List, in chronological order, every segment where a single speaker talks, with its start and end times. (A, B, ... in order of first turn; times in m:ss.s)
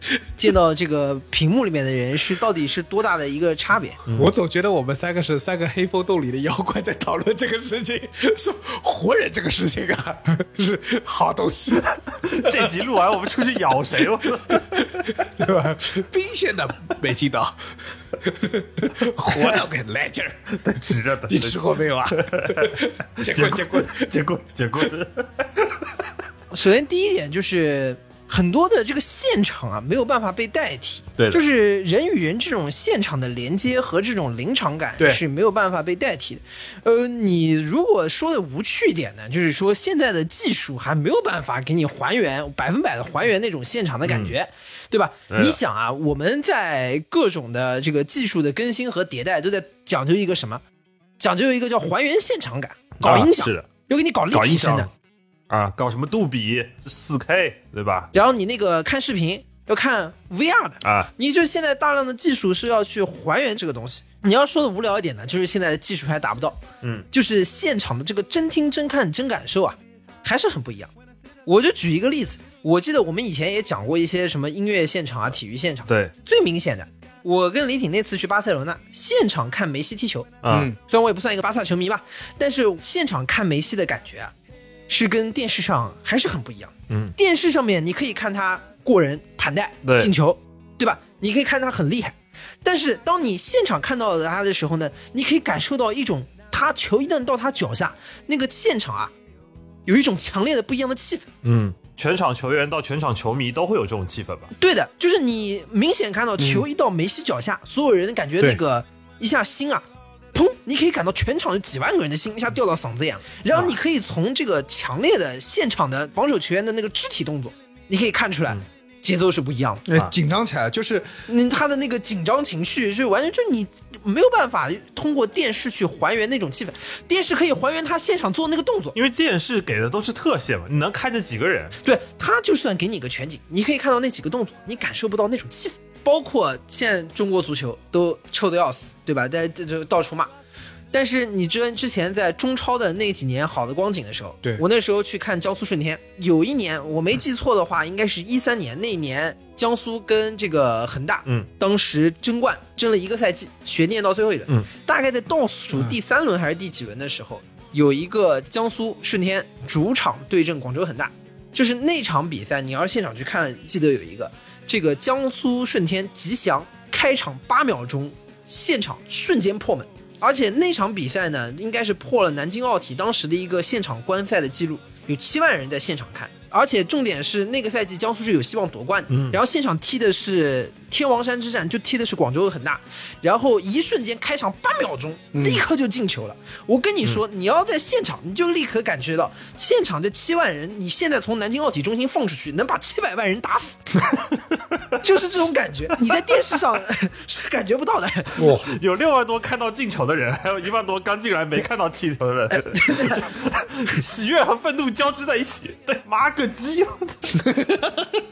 0:00.4-0:04.0 A
0:04.1-0:04.3 B
0:04.1-0:12.7 C
0:12.2-0:15.1 B
0:14.7-0:17.6 C
0:18.2-0:20.6 C
0:20.5-0:26.1 B
0:21.3-0:24.2 C
0:26.5-0:50.6 A
0:44.0-0:44.3 B
0:45.3-0:45.6 B
0:51.2-0:54.9 A
0:53.0-0:53.7 B
0:54.3-0:54.9 B
0:55.5-0:58.1 B
0:58.1-1:06.6 A
1:00.8-1:01.1 B
1:07.1-1:10.9 A
1:11.5-1:20.3 A
1:15.9-1:16.1 B
1:20.4-1:20.7 B
1:20.5-1:20.8 C
1:20.8-1:24.3 A
1:24.9-1:39.1 A
1:26.9-1:27.1 B
1:29.8-1:30.1 B
1:39.9-1:41.3 A
1:41.4-1:44.5 B
1:44.6-1:59.9 A
1:46.4-1:46.6 C
1:59.9-2:01.2 C
2:01.3-2:09.0 A
2:09.0-2:11.8 B
2:11.8-2:20.3 A
2:20.9-3:14.0 A
2:59.1-2:59.4 B
3:05.3-3:05.6 C
3:15.0-3:18.4 A
3:18.4-3:18.8 C
3:18.4-3:28.0 B
3:22.7-3:23.2 A